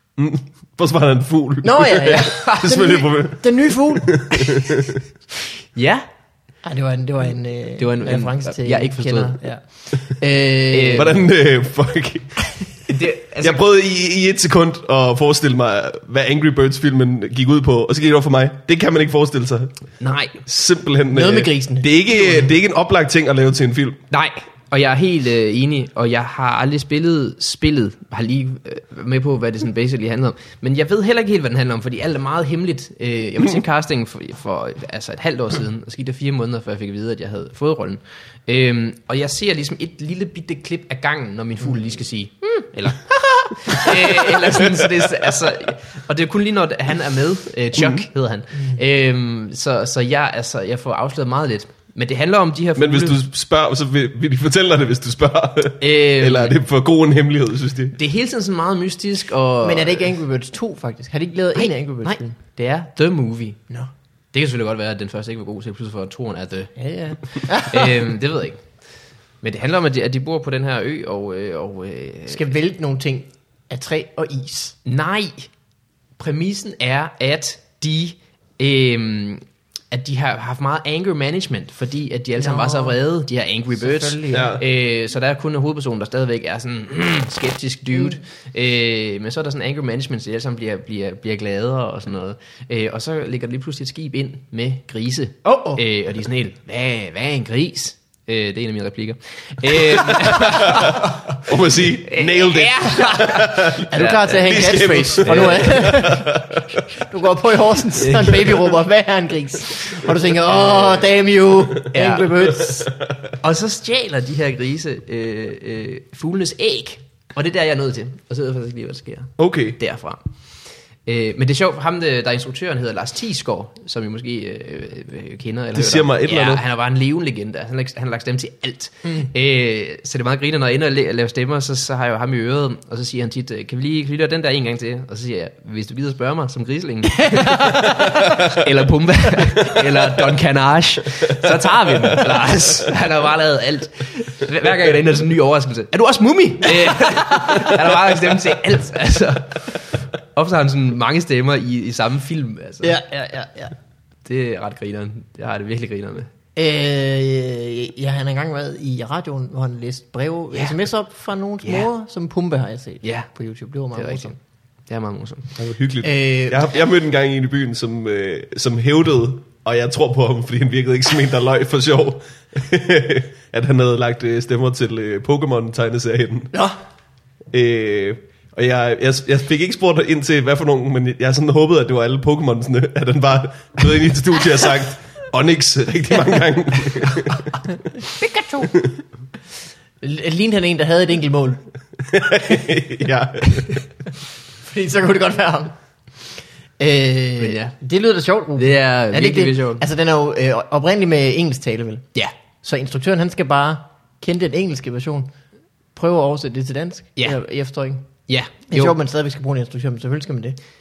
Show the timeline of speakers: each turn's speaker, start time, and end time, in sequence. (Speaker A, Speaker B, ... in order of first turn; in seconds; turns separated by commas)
Speaker A: 0.2-5.0, Speaker B: 1.6-4.6, Speaker C: 5.7-6.0, Speaker B: 6.6-11.2, Speaker C: 7.8-9.4, Speaker C: 10.7-11.1, Speaker A: 10.9-12.5, Speaker C: 12.9-13.6, Speaker A: 13.4-19.7, Speaker C: 20.0-20.4, Speaker A: 20.4-24.0, Speaker B: 21.1-22.5, Speaker C: 24.1-53.2, Speaker A: 47.8-48.0, Speaker A: 52.8-58.0, Speaker C: 55.8-56.5, Speaker C: 57.9-60.1, Speaker B: 59.6-62.4, Speaker C: 61.5-63.6, Speaker C: 64.3-66.7, Speaker B: 66.8-68.1, Speaker C: 67.3-68.6, Speaker C: 69.4-72.4, Speaker B: 72.3-74.8, Speaker C: 74.8-75.5, Speaker C: 76.2-101.4, Speaker B: 82.4-83.0, Speaker B: 83.8-84.5, Speaker A: 84.3-84.6, Speaker B: 95.4-95.8, Speaker A: 100.6-106.8, Speaker C: 102.0-104.6, Speaker B: 103.9-112.9, Speaker C: 105.2-105.9, Speaker C: 108.0-108.7, Speaker C: 110.5-111.0, Speaker C: 111.9-112.5, Speaker A: 112.5-113.3, Speaker C: 113.4-120.3, Speaker A: 119.4-119.8, Speaker C: 121.0-153.0, Speaker A: 125.7-126.6, Speaker B: 137.2-138.1, Speaker B: 147.0-147.7, Speaker B: 152.8-153.7, Speaker C: 154.2-156.3, Speaker B: 156.6-164.3, Speaker C: 161.6-161.9, Speaker C: 163.0-163.3, Speaker C: 163.9-165.5, Speaker A: 165.6-176.5, Speaker B: 166.0-166.6, Speaker A: 177.5-187.5, Speaker B: 188.2-188.7, Speaker B: 190.0-191.6, Speaker A: 192.1-193.8, Speaker B: 194.6-195.7, Speaker B: 196.8-202.1, Speaker C: 197.4-197.7, Speaker C: 198.6-199.8, Speaker B: 202.6-205.3, Speaker B: 205.9-208.1, Speaker C: 208.3-208.9, Speaker B: 208.7-210.6